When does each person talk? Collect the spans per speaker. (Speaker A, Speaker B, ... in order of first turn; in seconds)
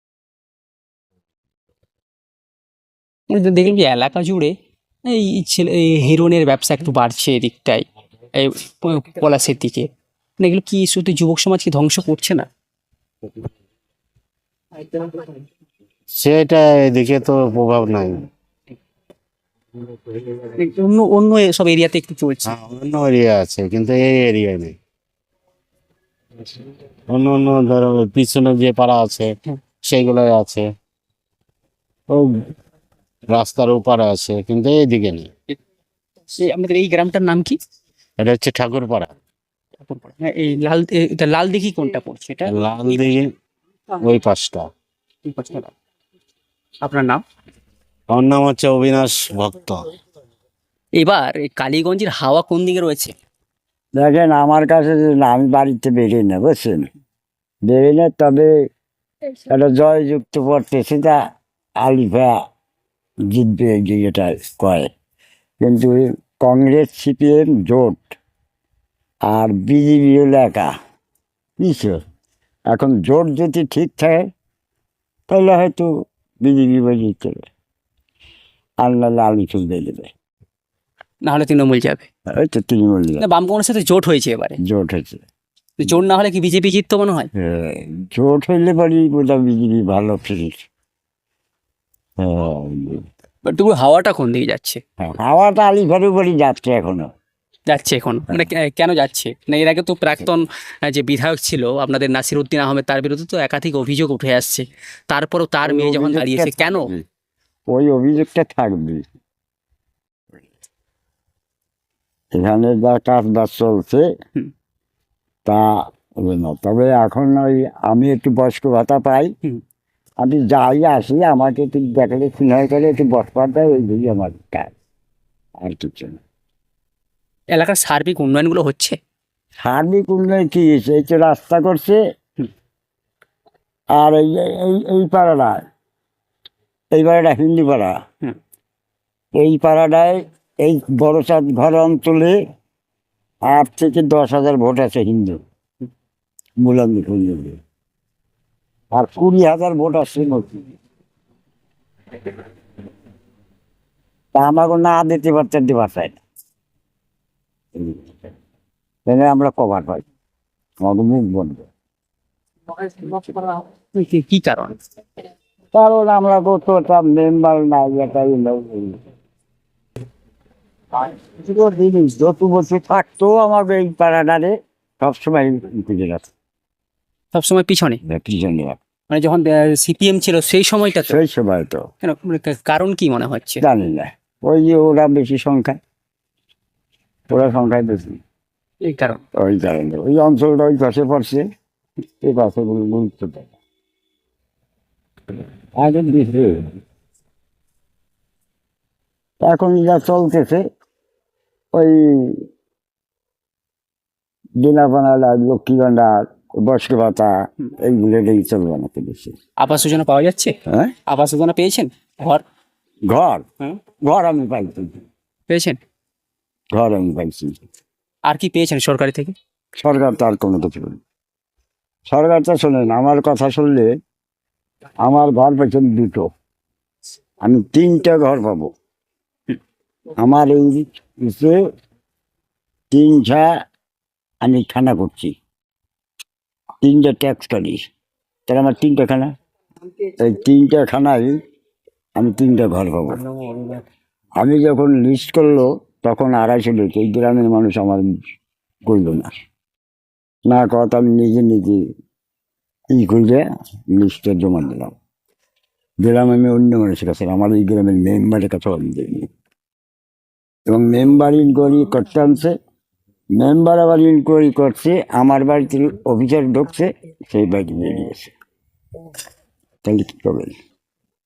Speaker A: 3.3-4.5, 5.0-7.8, 8.3-9.9, 10.4-12.5, 20.6-22.5, 36.4-37.5, 39.8-42.5, 45.2-45.7, 46.8-47.2, 51.0-53.1, 81.2-82.1, 83.2-84.6, 85.8-87.3, 93.4-94.8, 97.7-106.9, 127.5-128.9, 163.3-164.8, 177.3-178.0, 179.1-181.2, 182.0-183.6, 188.8-189.2, 209.6-210.5, 211.1-212.4, 215.5-215.8, 218.3-219.3
Speaker B: 16.2-18.2, 22.5-24.8, 27.1-29.3, 29.9-30.6, 33.3-35.3, 38.2-39.1, 42.5-43.2, 44.0-44.7, 48.1-49.9
Speaker C: 54.0-56.9, 57.6-58.5, 59.5-61.2, 61.8-62.4, 63.3-64.9, 65.6-68.2, 69.3-70.7, 71.6-72.0, 72.7-74.2, 75.3-75.9, 76.4-77.4, 78.8-80.1, 82.3-83.2, 84.6-85.2, 87.3-90.6, 92.2-93.0, 95.0-97.1, 105.6-107.0, 107.7-109.0, 112.3-114.1, 115.5-119.3, 120.2-124.7, 125.6-126.2, 129.6-132.0, 133.9-135.6, 136.9-137.9, 139.3-142.4, 143.4-145.4, 146.6-147.6, 148.9-150.7, 154.3-156.2, 157.8-158.1, 159.1-160.0, 160.8-161.7, 165.7-169.0, 170.9-176.3, 178.0-178.8, 180.9-181.8, 183.6-185.8, 187.3-188.2, 189.3-191.4, 192.2-193.5, 195.8-196.8, 199.4-200.6, 201.7-202.5, 204.6-209.3, 210.7-210.9, 213.1-213.4, 214.1-215.0, 216.7-217.6, 219.8-221.0, 222.1-223.9, 225.0-226.3, 227.4-228.7, 230.2-231.6, 232.9-233.5, 234.4-235.3, 236.8-237.8, 238.5-239.3, 240.2-241.3, 242.2-243.2, 244.4-248.1, 248.9-249.3, 250.5-251.8, 252.9-254.9, 256.0-259.3, 260.7-262.5, 263.4-268.3, 269.8-270.5